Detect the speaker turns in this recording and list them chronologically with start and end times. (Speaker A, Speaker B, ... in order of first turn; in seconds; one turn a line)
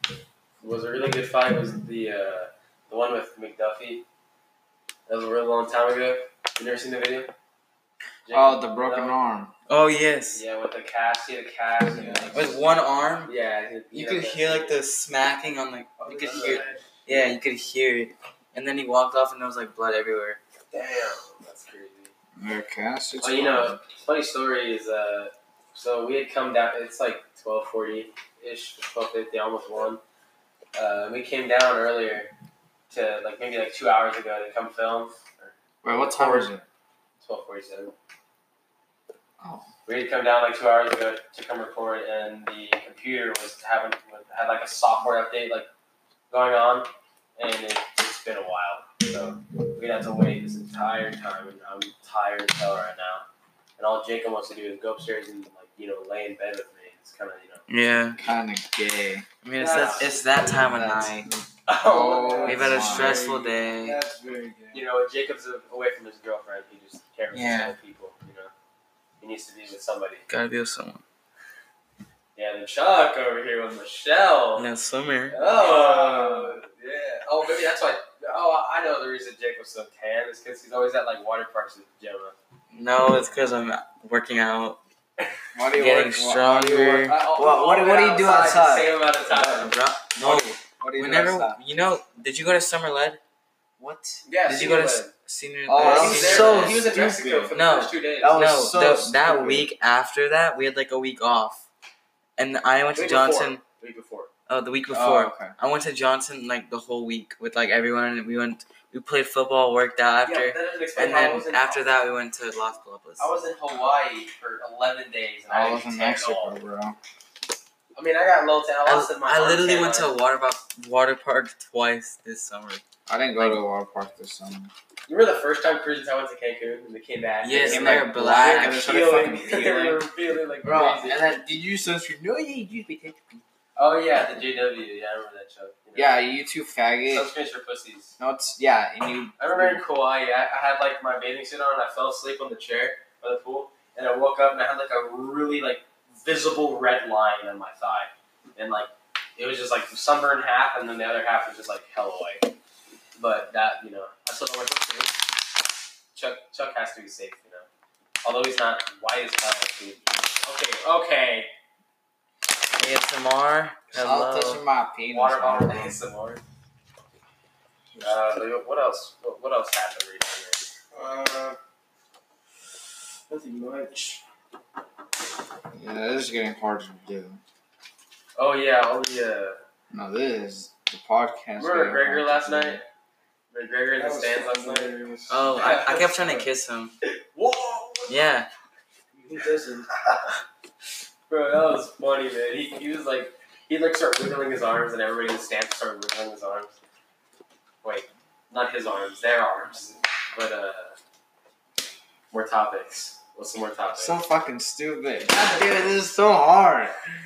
Speaker A: 0.6-4.0
Speaker A: 5.1-7.3
Speaker A: 8.2-9.2
Speaker B: 8.3-9.5
Speaker C: 9.7-10.4
Speaker A: 10.3-12.6
Speaker D: 11.9-12.4
Speaker C: 12.3-13.3
Speaker A: 13.2-14.8
Speaker C: 13.9-20.4
Speaker D: 16.0-16.9
Speaker A: 16.3-16.8
Speaker A: 20.7-22.1
Speaker B: 22.4-23.8
Speaker A: 23.2-30.0
Speaker A: 30.8-32.3
Speaker A: 32.9-36.5
Speaker B: 35.8-36.6
Speaker A: 37.2-37.9
Speaker B: 39.4-39.6
Speaker A: 39.9-45.7
Speaker A: 46.3-53.2
Speaker A: 53.8-57.6
Speaker C: 57.7-58.2
Speaker B: 58.2-63.3
Speaker C: 59.4-61.3
Speaker D: 59.6-60.1
Speaker A: 59.7-60.0
Speaker A: 61.7-62.6
Speaker D: 62.1-64.8
Speaker C: 62.5-64.0
Speaker A: 64.7-68.5
Speaker C: 67.3-67.8
Speaker A: 69.2-70.3
Speaker C: 70.3-71.0
Speaker A: 72.3-74.7
Speaker C: 74.5-75.4
Speaker A: 75.3-82.3
Speaker D: 75.5-76.6
Speaker C: 82.7-84.8
Speaker B: 85.5-91.6
Speaker C: 85.7-87.2
Speaker A: 87.0-89.7
Speaker C: 89.5-93.2
Speaker B: 93.8-94.2
Speaker A: 94.2-95.1
Speaker C: 94.4-97.0
Speaker B: 95.7-97.5
Speaker A: 95.8-98.4
Speaker C: 97.5-101.7
Speaker B: 98.2-99.7
Speaker C: 102.4-103.6
Speaker A: 102.9-104.3
Speaker C: 104.5-113.3
Speaker B: 104.9-105.5
Speaker A: 110.2-111.9
Speaker A: 113.2-116.6
Speaker B: 115.5-117.0
Speaker A: 117.9-120.2
Speaker C: 118.8-122.8
Speaker B: 123.1-124.7
Speaker A: 125.1-128.1
Speaker C: 127.4-128.8
Speaker B: 127.7-130.0
Speaker D: 128.8-129.5
Speaker A: 129.3-131.4
Speaker B: 130.6-133.4
Speaker A: 133.8-136.2
Speaker B: 135.9-137.3
Speaker A: 137.1-138.1
Speaker B: 138.2-139.8
Speaker A: 139.4-152.5
Speaker A: 153.2-155.2
Speaker A: 156.1-157.7
Speaker A: 158.2-161.5
Speaker C: 162.8-164.6
Speaker B: 163.9-166.0
Speaker A: 165.1-166.4
Speaker A: 168.0-170.6
Speaker D: 170.9-171.6
Speaker D: 173.3-174.2
Speaker B: 175.7-177.4
Speaker A: 178.4-179.6
Speaker B: 179.9-182.8
Speaker A: 181.6-182.8
Speaker A: 183.5-185.0
Speaker D: 183.9-186.5
Speaker C: 185.3-186.9
Speaker A: 185.6-185.9
Speaker A: 187.0-188.2
Speaker C: 188.1-188.5
Speaker D: 189.1-189.9
Speaker A: 191.3-196.8
Speaker A: 197.8-201.0
Speaker A: 202.3-204.2
Speaker B: 203.9-207.0